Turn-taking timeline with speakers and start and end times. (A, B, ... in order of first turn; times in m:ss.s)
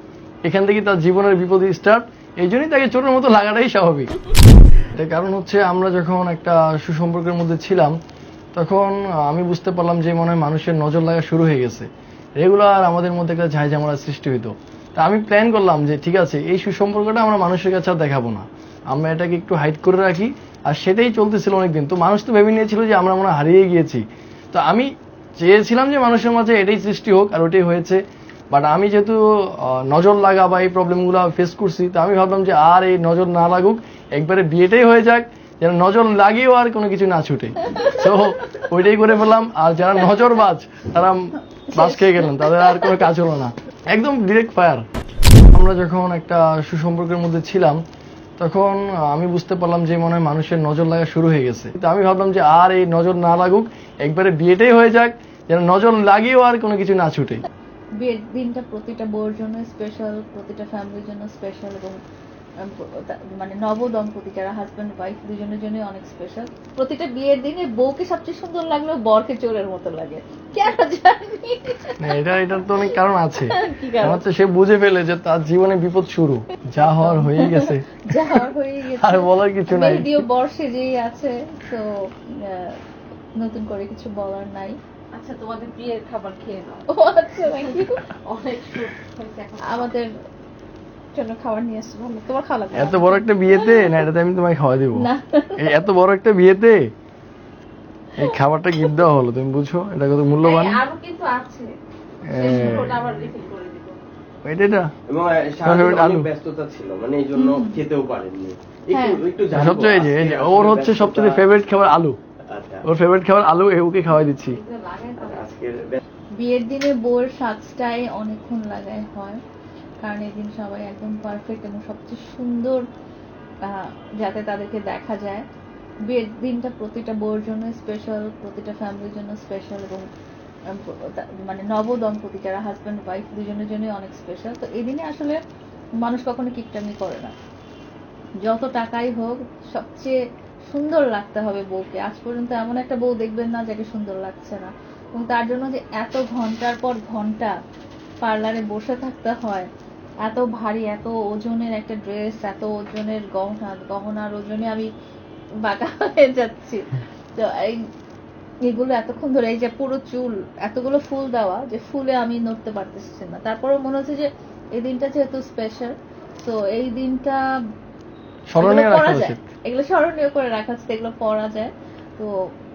0:00.4-0:04.1 A
0:04.9-0:08.0 A
0:08.5-0:44.8 A
0:37.6-0:38.1 B
0:41.7-0:43.1 B
0:45.5-0:47.8 A
0:48.4-0:57.4 A
0:58.0-1:02.0 B
1:02.6-1:14.2 B
1:12.0-1:20.2 A
1:16.8-1:22.8 B
1:23.4-1:24.8 B
1:25.1-1:26.9 C
1:26.9-1:28.1 B
1:27.5-1:29.9 C
1:29.6-1:30.1 B
1:31.1-1:34.0 B
1:32.7-1:36.9 A
1:34.9-1:35.6 B
1:38.2-1:40.8 A
1:40.4-1:41.8 C
1:42.2-1:43.1 A
1:42.3-1:44.0 C
1:42.4-1:42.8 B
1:44.4-1:44.9 A
1:45.1-1:51.4 D
1:45.6-1:46.3 A
1:47.3-1:47.8 B
1:48.9-1:49.2 B
1:49.5-1:52.2 A
1:52.5-1:52.8 D
1:52.8-1:54.6 A
1:54.4-1:55.5 C
1:55.2-1:56.0 D
1:56.4-1:59.4 B
2:00.0-2:02.8 B
2:03.6-2:05.4 B
2:06.1-2:10.1 B
2:10.7-2:15.4 B
2:16.0-2:17.3 B
2:18.4-2:20.2 B
2:20.7-2:27.5 B
2:28.2-2:29.7 B
2:30.2-2:34.9 B
2:35.6-2:37.9 B
2:38.6-2:47.4 B
2:48.5-2:49.4 A
2:48.6-2:52.3 B